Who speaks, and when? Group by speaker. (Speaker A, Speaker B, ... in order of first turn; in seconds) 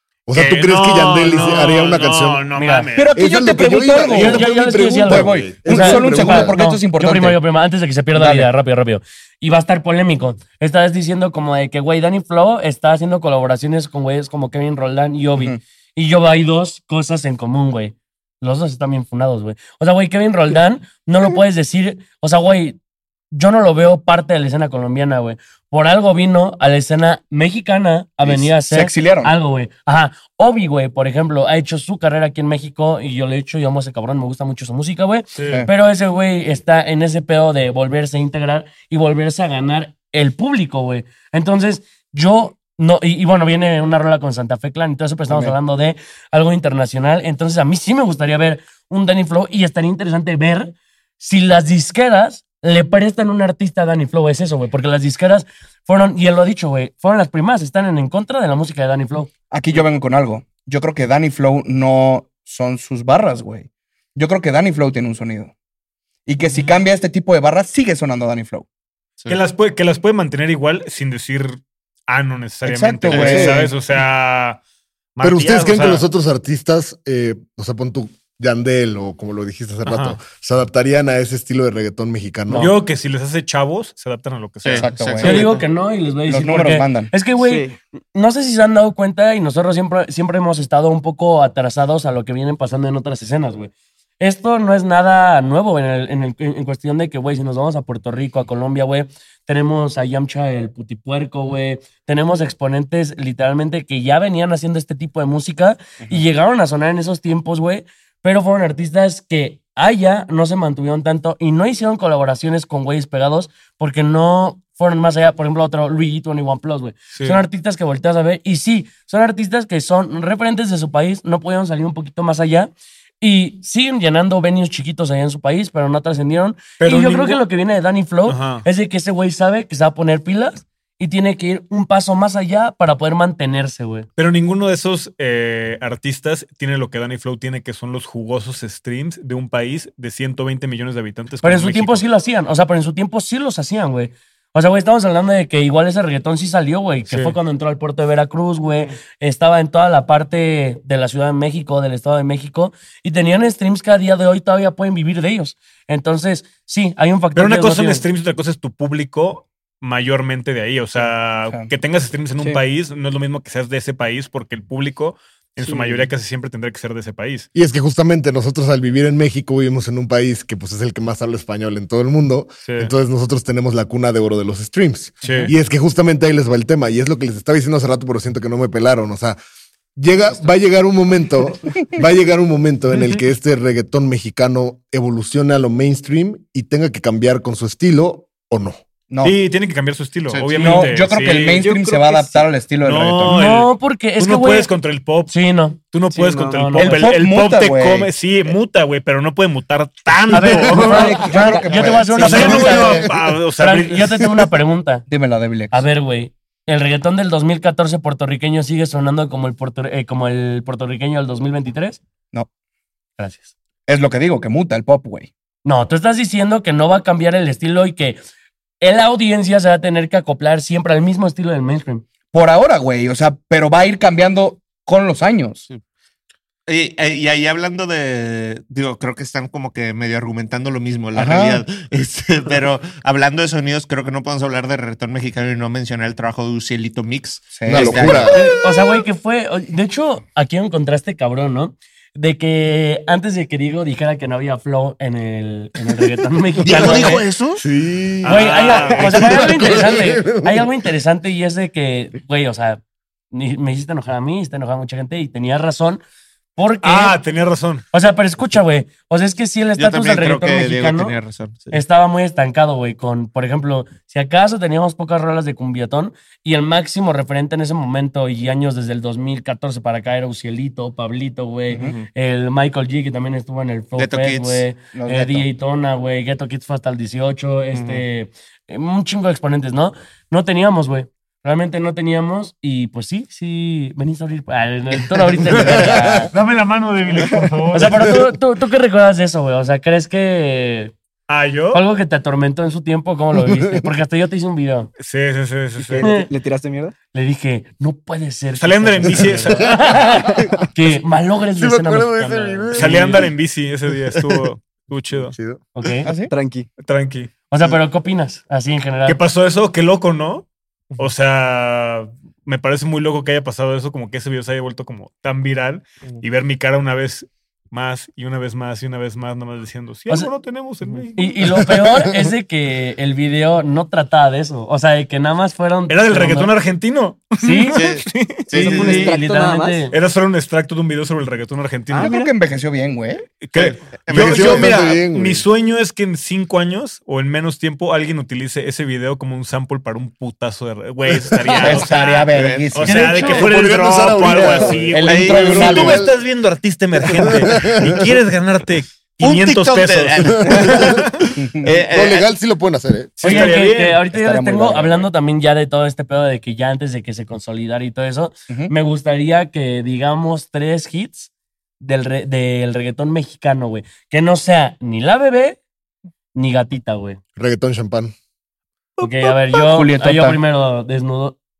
Speaker A: 0.3-2.4, 3.1-6.5, 75.2-82.7, 167.5-179.4, 179.9-188.8, 237.6-238.4, 247.6-250.7, 285.7-286.2, 293.5-293.8, 299.3-300.7, 301.6-303.3, 305.2-305.6, 321.5-322.3, 334.1-335.4, 341.3-341.6, 343.2-346.2, 347.0-348.0, 350.3-351.1, 351.7-353.4, 367.4-368.1
Speaker B: 0.3-3.2, 35.3-35.6, 69.3-74.6, 75.2-76.1, 79.8-80.2, 82.5-85.4, 117.1-117.4, 126.8-127.4, 128.2-128.7, 134.2-142.0, 147.1-147.3, 157.3-167.5, 172.6-172.9, 175.2-175.5, 189.2-191.7, 192.8-195.3, 195.9-201.3, 202.1-204.3, 248.2-249.9, 256.8-257.8, 285.9-288.2, 291.3-291.8, 295.0-296.1, 298.6-299.9, 302.7-305.3, 306.8-307.3, 309.1-321.6, 325.9-329.1, 329.9-332.2, 333.4-351.1, 353.2-354.0
Speaker C: 2.5-2.9, 4.1-22.8, 23.3-59.3, 82.5-82.8, 85.2-134.1, 141.4-158.0, 193.3-194.7, 195.3-195.8, 196.4-197.0, 200.3-205.0, 205.7-212.0, 213.2-213.5, 215.6-218.2, 218.8-222.0, 238.3-247.2, 248.2-252.8, 253.3-256.0, 256.6-257.2, 257.9-261.1, 261.7-286.3, 287.7-290.9, 291.7-294.9, 296.0-296.3, 297.1-303.3, 305.7-306.1, 307.5-309.2, 321.1-326.5, 327.4-327.8, 328.5-329.9, 342.9-343.5, 353.2-365.6, 366.3-367.2, 369.0-371.4
Speaker D: 2.9-7.4, 8.1-8.5, 28.2-29.3, 45.3-45.6, 59.5-65.5, 66.2-68.7, 72.6-73.7, 84.8-85.4, 86.3-87.1, 189.1-189.3, 190.5-193.4, 196.8-198.1, 200.4-203.1, 205.1-205.8, 213.9-215.3, 222.3-225.6, 231.1-231.6, 237.5-238.3, 271.7-271.9, 274.9-275.5, 306.0-306.3, 332.0-333.3, 341.5-343.3, 344.2-346.1, 351.4-351.7, 354.1-355.1, 369.0-370.4
Speaker E: 73.1-73.5, 84.6-85.6, 190.3-190.7, 226.7-238.6, 246.6-247.6, 259.8-261.7, 271.7-272.1, 273.9-274.7, 277.7-278.0, 285.6-285.9, 320.8-321.1, 327.7-329.1, 333.5-334.9, 341.6-342.9, 345.0-346.0, 349.2-352.3
Speaker F: 87.4-87.8, 191.5-192.5, 196.1-196.6, 200.9-202.5, 295.8-296.9, 306.2-306.7, 328.5-329.9, 331.9-332.3